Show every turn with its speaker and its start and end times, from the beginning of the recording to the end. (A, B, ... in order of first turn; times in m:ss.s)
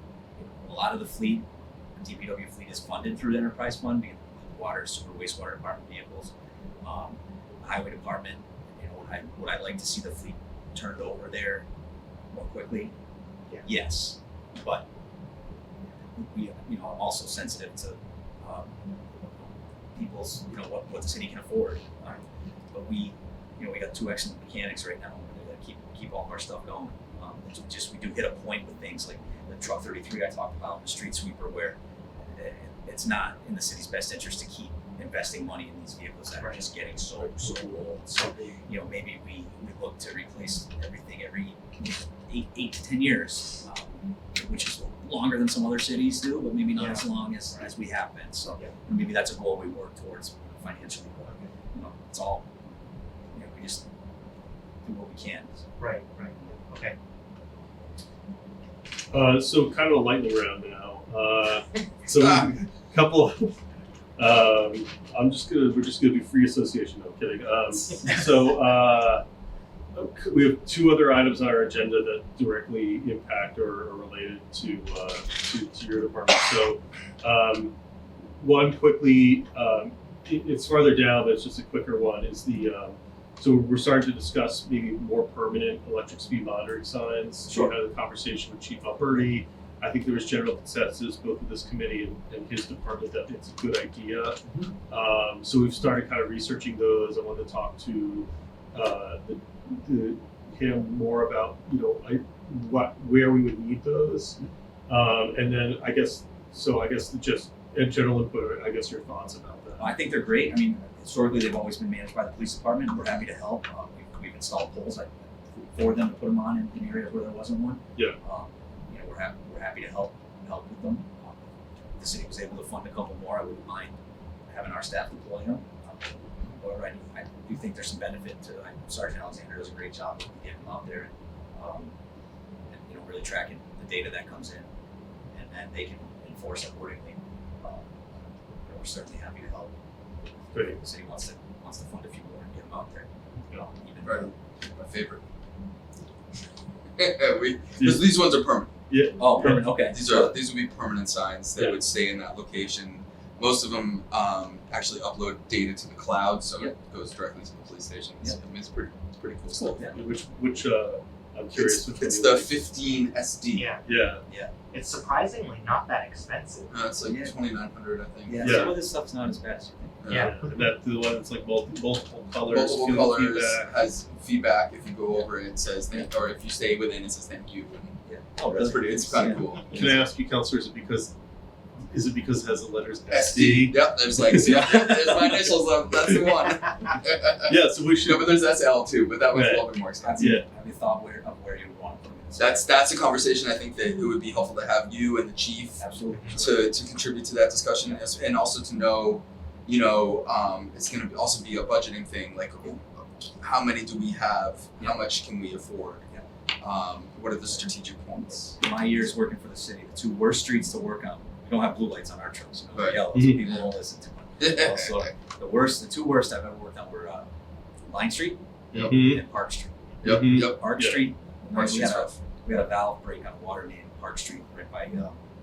0:00.4-0:11.6 A
0:12.3-0:12.9 A
0:13.6-0:14.9 A
0:16.0-0:22.2 A
0:22.7-0:52.5 A
0:36.4-0:36.6 B
0:46.7-0:47.7 B
0:53.3-0:53.9 A
0:54.8-0:55.6 A
0:55.8-0:57.0 B
0:59.1-1:03.6 C
1:02.1-1:02.5 D
1:04.2-1:09.2 C
1:09.9-1:17.8 C
1:18.4-1:44.4 C
1:27.5-1:27.7 A
1:44.9-1:50.0 C
1:49.8-2:01.4 A
2:02.0-2:04.0 A
2:04.5-2:11.9 A
2:12.7-2:14.7 A
2:15.3-2:19.7 A
2:20.5-2:20.8 C
2:20.5-2:24.3 A
2:24.0-2:25.2 D
2:27.0-2:28.7 D
2:27.8-2:28.1 C
2:28.9-2:29.8 C
2:29.2-2:30.3 A
2:29.4-2:39.9 D
2:31.6-2:31.8 C
2:39.5-2:40.0 A
2:39.8-2:42.6 C
2:41.5-2:43.7 D
2:43.5-2:43.8 B
2:43.8-2:44.2 C
2:44.3-2:44.5 A
2:44.7-2:46.7 B
2:46.7-2:48.8 D
2:47.0-2:47.4 A
2:48.2-2:50.0 A
2:48.4-2:48.8 C
2:50.0-2:50.3 D
2:50.1-2:50.6 B
2:50.1-2:53.8 C
2:52.5-3:00.0 D
2:58.0-2:59.6 A
2:59.7-3:01.1 C
3:01.8-3:06.3 C
3:03.1-3:10.3 D
3:07.4-3:08.4 C
3:09.3-3:10.4 C
3:10.0-3:12.6 A
3:12.4-3:15.8 D
3:15.8-3:16.8 A
3:16.3-3:26.0 D
3:17.8-3:18.2 A
3:26.6-3:28.8 D
3:28.5-3:37.3 A
3:32.7-3:33.7 D
3:33.1-3:33.4 C
3:34.4-3:35.1 D
3:37.9-3:45.2 A
3:38.7-3:39.2 C
3:40.0-3:40.6 D
3:40.0-3:41.1 C
3:41.5-3:42.2 D